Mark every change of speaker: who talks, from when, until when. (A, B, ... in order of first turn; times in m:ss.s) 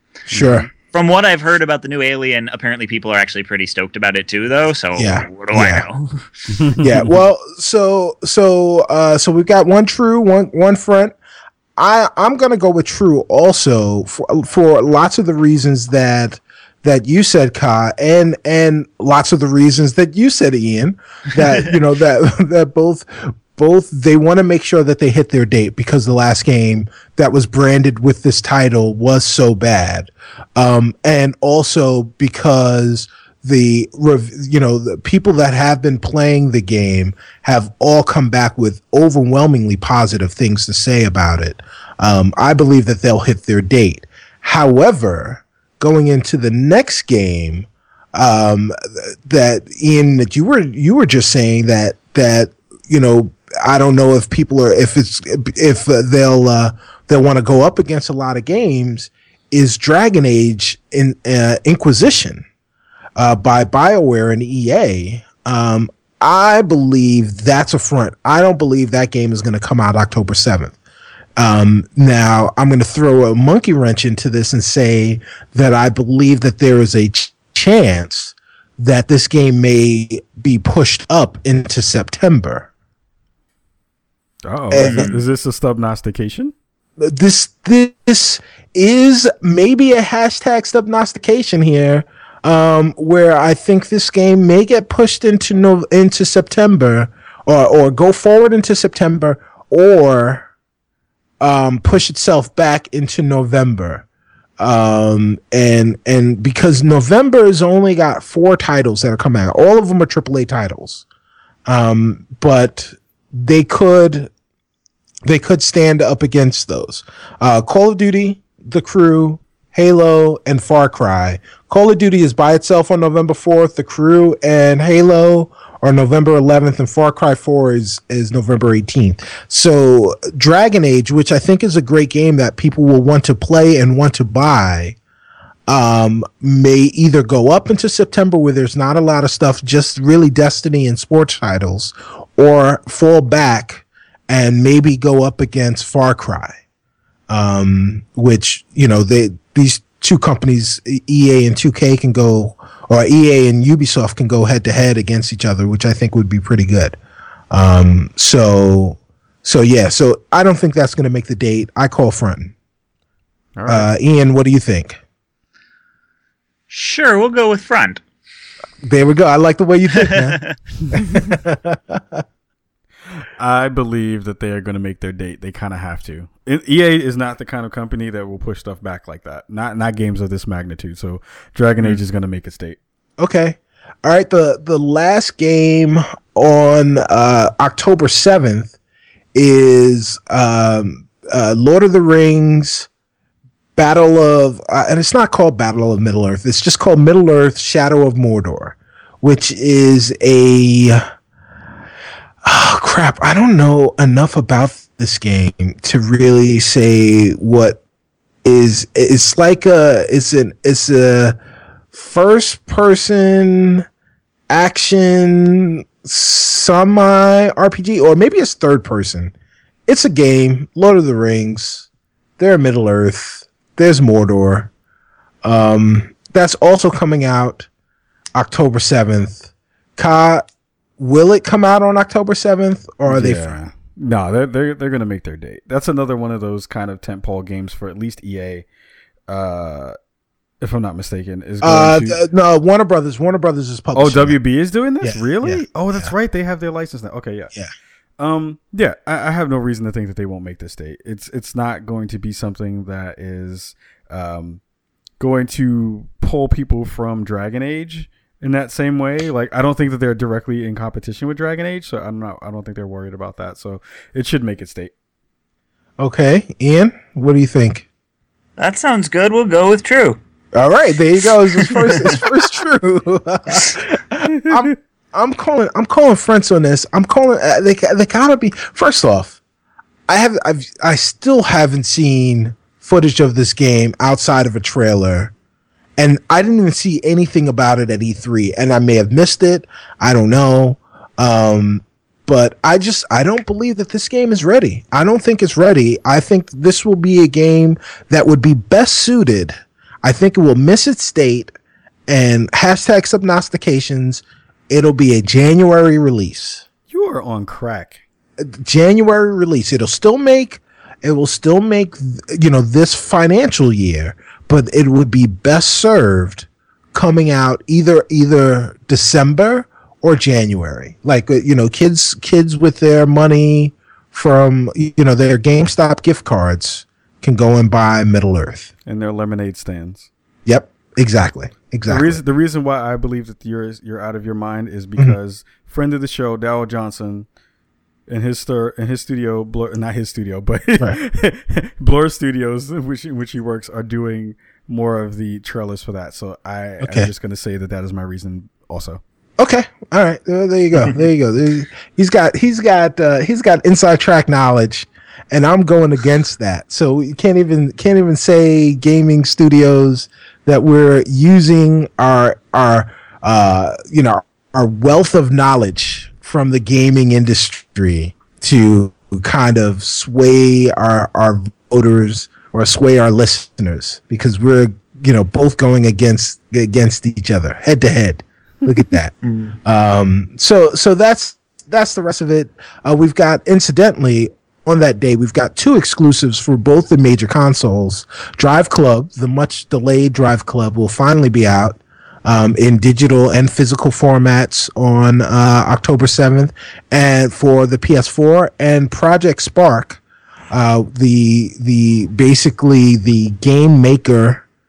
0:00.3-0:00.7 A
0:00.3-0:00.7 B
0:00.9-0:06.2 C
0:05.0-0:05.8 A
0:06.5-0:07.1 B
0:06.8-0:11.2 A
0:11.8-1:02.4 A
1:03.2-1:10.8 A
1:11.4-1:22.7 A
1:24.5-1:26.5 B
1:24.7-1:25.2 A
1:24.8-1:25.1 C
1:27.0-1:40.5 A
1:41.4-1:44.0 A
1:44.6-1:51.0 A
1:51.7-1:54.3 A
1:55.3-2:15.0 A
2:15.7-2:26.6 A
2:27.3-2:37.0 A
2:37.5-2:42.5 A
2:43.6-2:43.9 B
2:43.7-2:45.0 A
2:46.7-2:48.0 C
2:48.8-2:50.4 A
2:50.0-2:50.5 C
2:50.9-2:52.2 A
2:53.4-3:02.8 B
3:03.2-3:08.7 A
3:09.3-3:12.9 A
3:13.8-3:21.0 A
3:22.4-3:27.8 A
3:28.4-3:31.4 A
3:31.9-3:33.9 A
3:34.5-3:39.3 A
3:39.9-3:41.9 A
3:42.4-3:44.7 A
3:45.4-3:47.7 A
3:48.4-3:50.5 A
3:51.0-3:53.6 A
3:53.1-3:58.7 B
3:59.3-4:00.0 B
4:00.6-4:02.2 B
4:01.6-4:04.4 A
4:04.0-4:07.5 B
4:05.0-4:06.1 A
4:08.2-4:14.6 B
4:15.2-4:24.9 B
4:26.0-4:27.9 A
4:28.6-4:30.2 C
4:30.6-4:39.4 A
4:31.6-4:32.2 C
4:34.3-4:34.8 B
4:40.1-4:45.3 A
4:46.0-5:01.5 A
5:02.1-5:06.6 A
5:06.9-5:08.0 B
5:08.4-5:28.7 A
5:28.9-5:30.1 B
5:30.5-5:32.2 A
5:31.9-5:37.3 B
5:38.1-5:49.0 B
5:46.8-5:47.1 A
5:49.4-6:40.0 A
6:19.2-6:19.5 C
6:40.5-6:44.4 A